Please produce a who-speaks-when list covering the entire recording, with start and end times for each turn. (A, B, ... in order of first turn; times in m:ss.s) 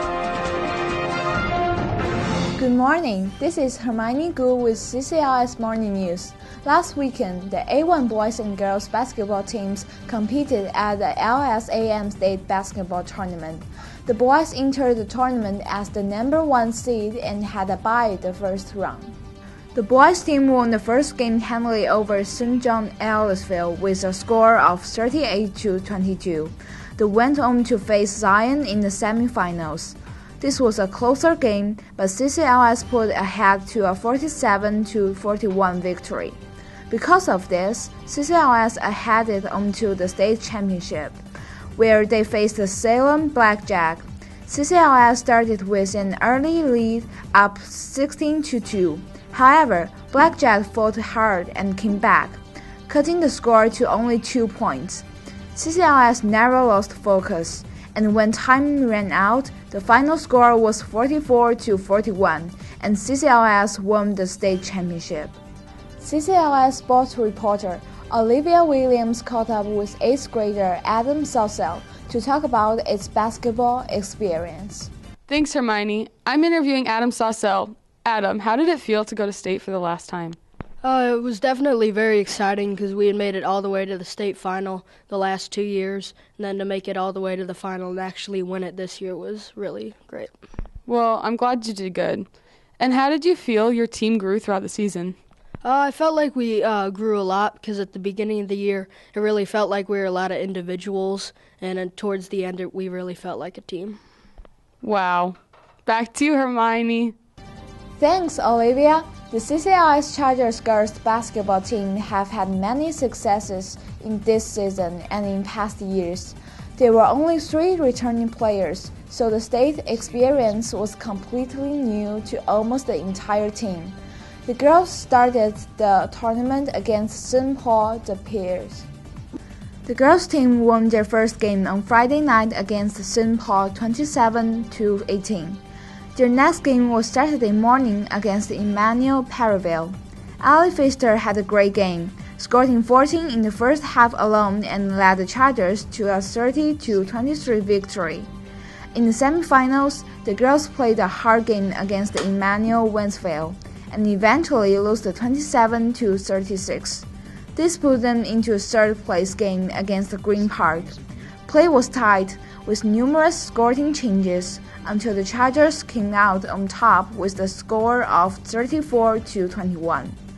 0:02.6-0:19.2 A
0:19.7-0:36.4 A
0:36.9-0:41.2 A
0:41.8-1:05.4 A
1:06.0-1:14.9 A
1:15.3-1:20.4 B
1:20.8-1:30.4 C
1:30.9-1:35.2 B
1:35.6-1:44.0 C
1:44.8-1:47.2 B
1:48.0-2:04.0 A
2:04.5-2:08.9 A
2:09.9-2:15.6 A
2:16.2-2:28.3 A
2:28.9-2:50.2 A